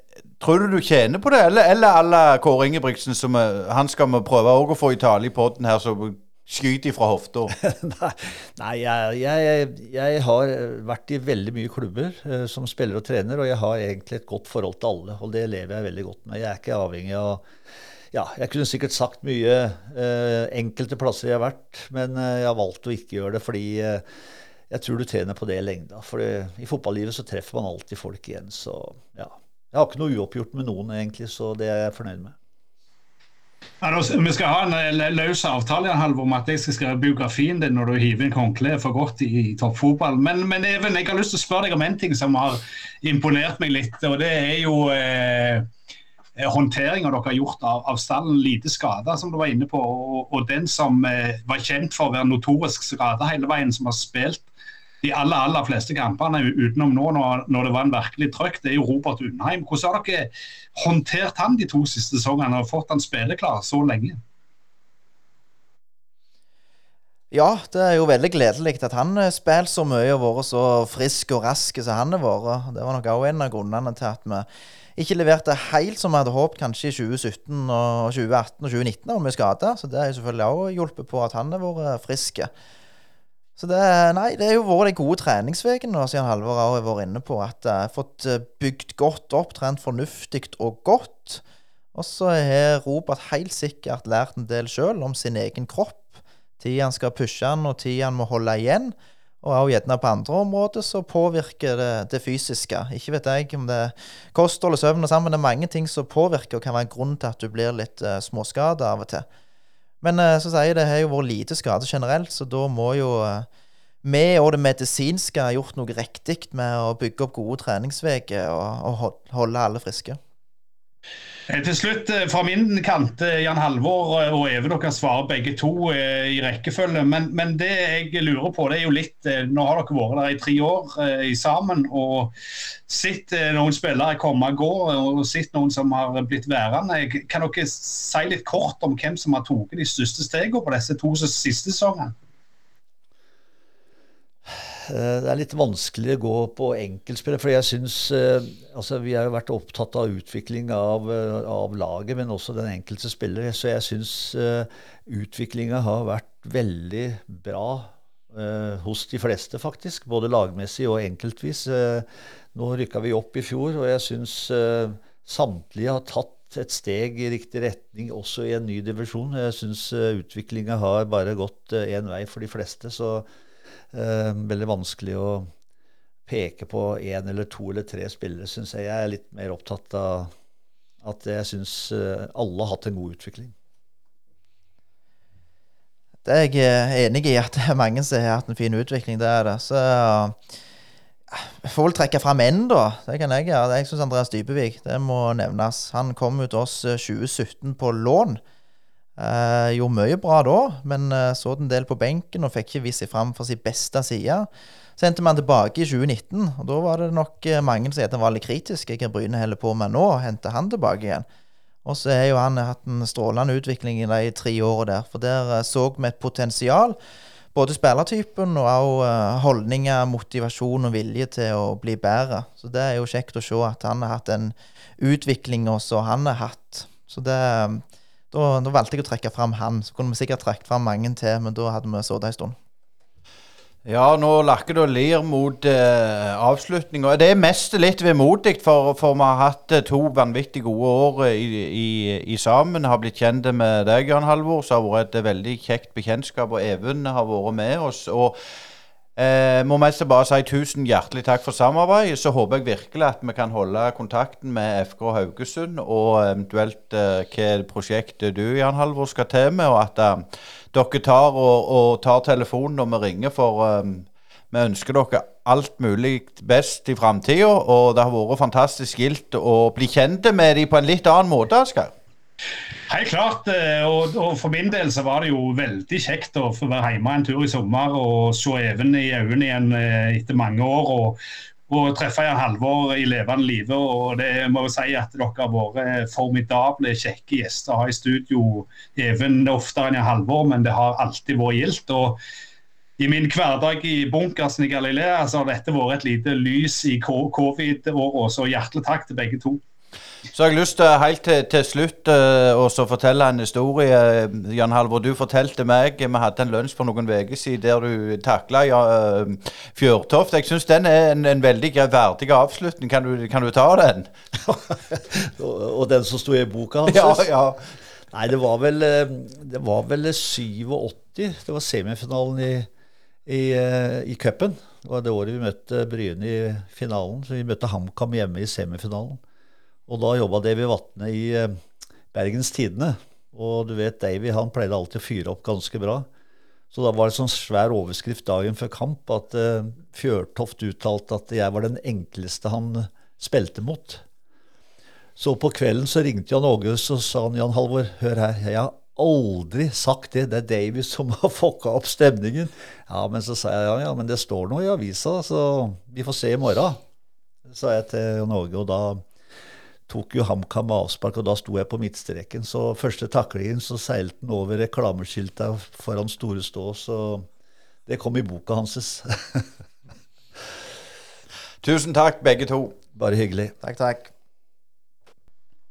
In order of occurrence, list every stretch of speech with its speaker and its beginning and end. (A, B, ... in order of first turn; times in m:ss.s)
0:00.4-0:07.5 A
0:07.6-0:17.5 B
0:18.1-0:24.0 B
0:24.7-0:32.4 B
0:33.8-0:45.7 C
0:46.4-0:54.5 C
0:55.0-1:04.2 C
1:07.3-1:22.5 D
1:23.6-1:31.4 D
1:31.9-1:49.2 D
1:50.0-1:53.5 D
1:54.0-2:00.2 D
2:01.5-2:12.3 C
2:12.9-2:22.1 C
2:24.5-2:53.3 B
2:53.9-2:55.5 B
2:56.3-3:00.3 B
3:01.0-3:03.5 B
3:06.2-3:10.4 D
3:11.3-3:18.4 D
3:19.2-3:31.2 D
3:31.8-3:37.0 D
3:37.5-3:52.6 D
3:53.8-4:08.4 A
4:09.2-4:31.9 A
4:32.9-4:52.2 C
4:53.0-4:59.6 C
5:00.3-5:14.1 A
5:14.5-5:17.3 B
5:16.9-5:17.6 A
5:18.1-5:22.7 B
5:23.2-5:29.2 B
5:29.9-5:31.6 B
5:32.1-5:36.1 B
5:36.7-5:44.0 B
5:45.2-5:56.8 B
5:57.5-5:59.0 B
5:59.9-6:07.3 B
6:07.8-6:09.5 B
6:11.6-6:12.8 A
6:12.9-6:13.5 B
6:13.6-6:14.1 D